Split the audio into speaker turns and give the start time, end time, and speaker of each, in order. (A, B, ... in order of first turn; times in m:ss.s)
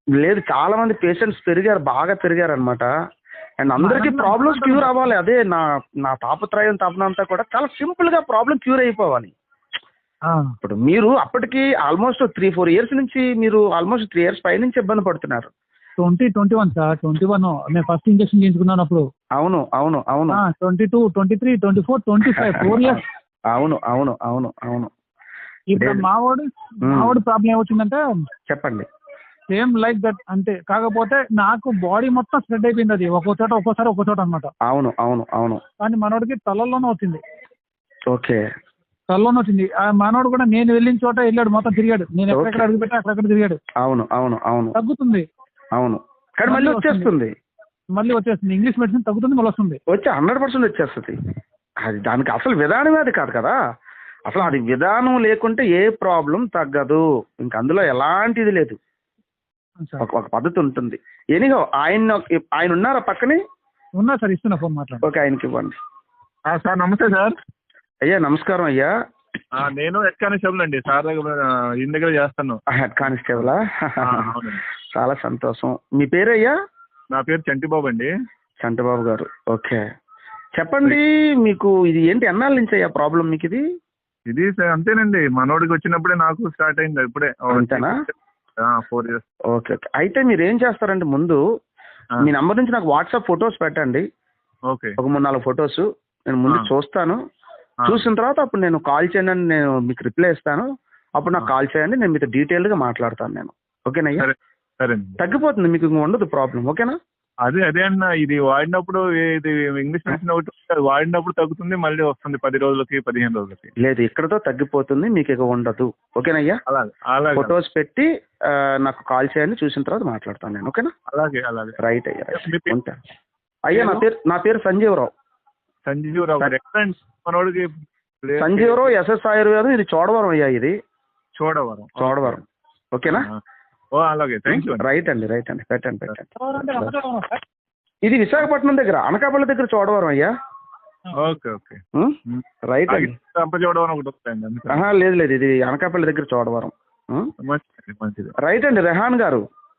0:00.2-0:02.9 A
0:03.6-0:09.3 A
0:03.7-0:05.0 B
0:10.3-0:10.5 B
0:10.6-0:15.5 A
0:16.0-0:19.0 B
0:19.4-0:20.4 A
0:20.3-0:23.0 B
0:22.2-0:23.0 A
0:23.5-0:24.9 A
0:25.7-0:28.0 B
0:25.8-0:26.0 A
0:26.8-0:27.2 A
0:28.5-0:28.9 A
0:29.5-0:34.5 B
0:34.7-0:35.6 A
0:35.8-0:37.2 B
0:38.1-0:38.4 A
0:39.1-0:43.6 B
0:42.3-0:42.6 A
0:43.8-0:44.8 A
0:44.8-0:45.3 B
0:45.8-0:47.3 A
0:46.4-0:47.1 B
0:48.0-0:49.8 B
0:49.9-0:51.1 A
0:51.8-0:53.6 A
0:54.3-0:58.8 A
1:00.0-1:03.4 A
1:04.0-1:05.0 B
1:05.0-1:05.8 A
1:06.5-1:07.3 C
1:08.0-1:08.9 A
1:09.6-1:12.6 C
1:12.7-1:14.3 A
1:14.0-1:14.6 C
1:14.9-1:16.5 A
1:17.1-1:18.1 C
1:18.6-1:19.8 A
1:20.6-1:23.6 A
1:24.3-1:28.1 C
1:27.5-1:27.9 A
1:28.6-1:29.2 C
1:29.5-1:31.4 A
1:32.2-1:34.0 A
1:34.7-1:35.0 C
1:35.0-1:37.2 A
1:37.8-1:38.1 C
1:37.9-1:40.7 A
1:41.2-1:44.3 A
1:44.2-1:45.2 C
1:45.2-1:47.0 A
1:47.4-1:53.7 C
1:53.8-1:56.6 A
1:56.7-1:57.6 C
1:57.3-2:00.9 A
2:01.1-2:01.8 C
2:01.8-2:03.0 A
2:02.3-2:02.8 C
2:03.6-2:05.1 A
2:03.7-2:04.0 C
2:05.8-2:08.9 C
2:08.4-2:10.7 A
2:11.4-2:12.4 C
2:12.0-2:13.3 A
2:13.1-2:13.4 C
2:14.0-2:14.8 C
2:14.5-2:16.9 A
2:16.4-2:17.4 B
2:18.0-2:20.3 A
2:21.1-2:21.3 B
2:21.1-2:24.9 C
2:22.7-2:23.1 A
2:24.7-2:27.3 A
2:27.4-2:28.3 C
2:28.4-2:29.4 A